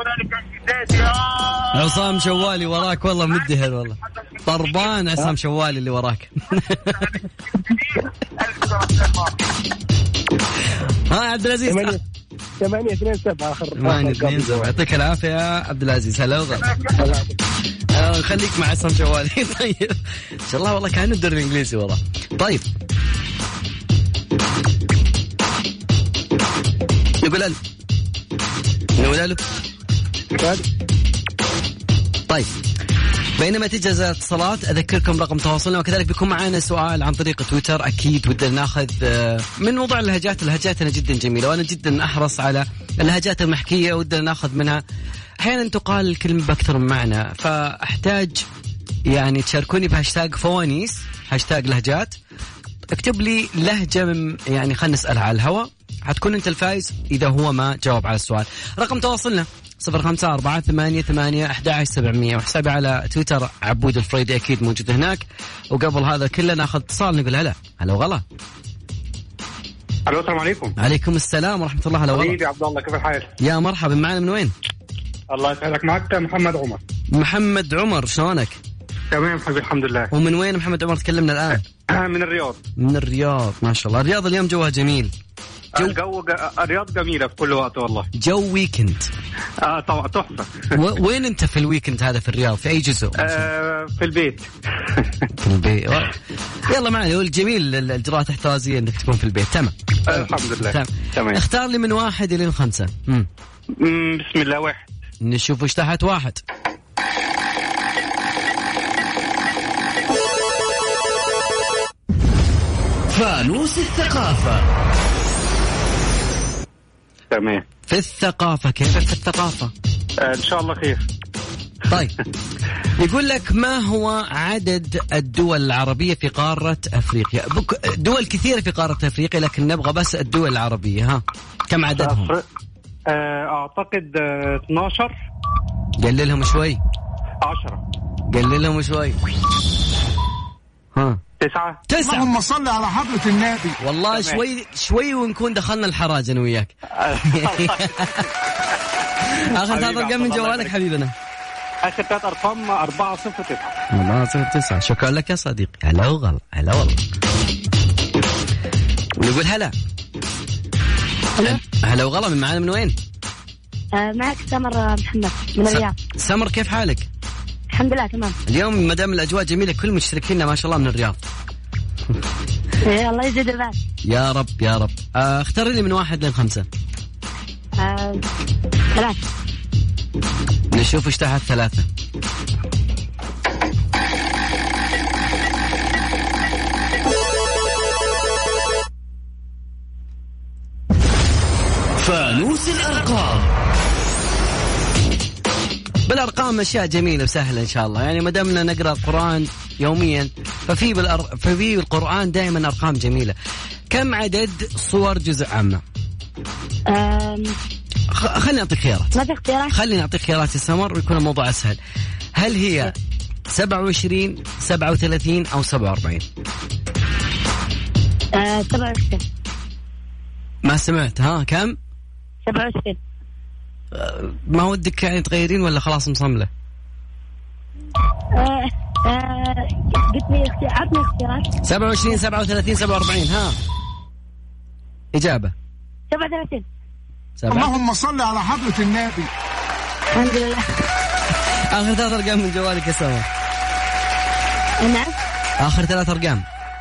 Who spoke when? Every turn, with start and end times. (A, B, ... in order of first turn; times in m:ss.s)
0:01.7-0:07.1 A
0:11.1-0:12.0 A
0:11.6-0:12.0 B
0:12.6-0:14.7 B
0:13.8-0:16.8 A
0:16.8-0:17.3 B
0:17.9-0:22.6 A
0:27.2-0:27.6 A
0:29.0-0:29.4 A
0:33.4-0:44.8 A
0:45.4-0:48.4 A
0:49.0-0:52.2 A
0:52.9-1:08.2 A
1:10.1-1:10.7 C
1:10.8-1:12.4 A
1:12.1-1:13.3 C
1:13.4-1:14.5 A
1:15.3-1:16.8 C
1:17.1-1:18.6 A
1:19.1-1:20.1 C
1:20.1-1:21.6 A
1:21.9-1:22.6 C
1:22.8-1:25.1 A
1:25.8-1:28.1 C
1:28.2-1:29.1 A
1:29.6-1:30.6 C
1:30.7-1:33.5 A
1:33.2-1:35.1 C
1:35.4-1:36.2 A
1:36.7-1:43.3 A
1:40.1-1:41.4 C
1:43.8-1:44.9 C
1:45.2-1:46.4 A
1:53.1-1:54.7 D
1:57.3-1:57.6 C
1:57.9-1:59.7 A
2:00.2-2:01.0 C
2:03.0-2:12.3 A
2:12.0-2:12.4 C
2:13.1-2:15.2 C
2:16.0-2:16.8 A
2:17.4-2:17.8 C
2:18.3-2:19.2 A
2:20.9-2:21.2 A
2:21.4-2:21.8 C
2:21.9-2:22.3 A
2:22.0-2:23.8 E
2:23.8-2:28.2 A
2:24.1-2:24.4 C
2:27.0-2:28.3 C
2:29.3-2:31.1 A
2:29.6-2:30.7 C
2:31.8-2:33.7 C
2:33.9-2:37.0 A
2:39.2-2:39.7 A
2:41.4-2:43.0 A
2:43.9-2:45.9 F
2:45.7-2:47.1 A
2:47.7-2:48.4 F
2:48.5-2:51.2 A
2:52.8-2:53.8 F
2:54.0-2:56.7 A
2:57.8-2:58.2 F
2:58.9-2:59.2 F
3:00.7-3:01.9 A
3:12.0-3:13.5 D
3:16.0-3:23.4 A
3:23.9-3:25.8 A
3:26.9-3:27.6 F
3:28.1-3:29.2 A
3:29.1-3:29.7 F
3:29.7-3:31.8 A
3:32.3-3:32.9 A
3:33.5-3:36.2 A
3:38.3-3:39.2 F
3:40.6-3:41.8 A
3:42.4-3:43.0 F
3:43.9-3:46.5 A
3:48.3-3:51.5 F
3:51.6-3:53.6 A
3:55.1-3:55.5 A
3:56.1-3:56.6 F
3:57.4-3:57.7 A
3:57.5-3:59.3 E
4:00.1-4:00.7 F
4:01.7-4:03.3 A
4:04.8-4:05.1 F
4:05.6-4:06.4 A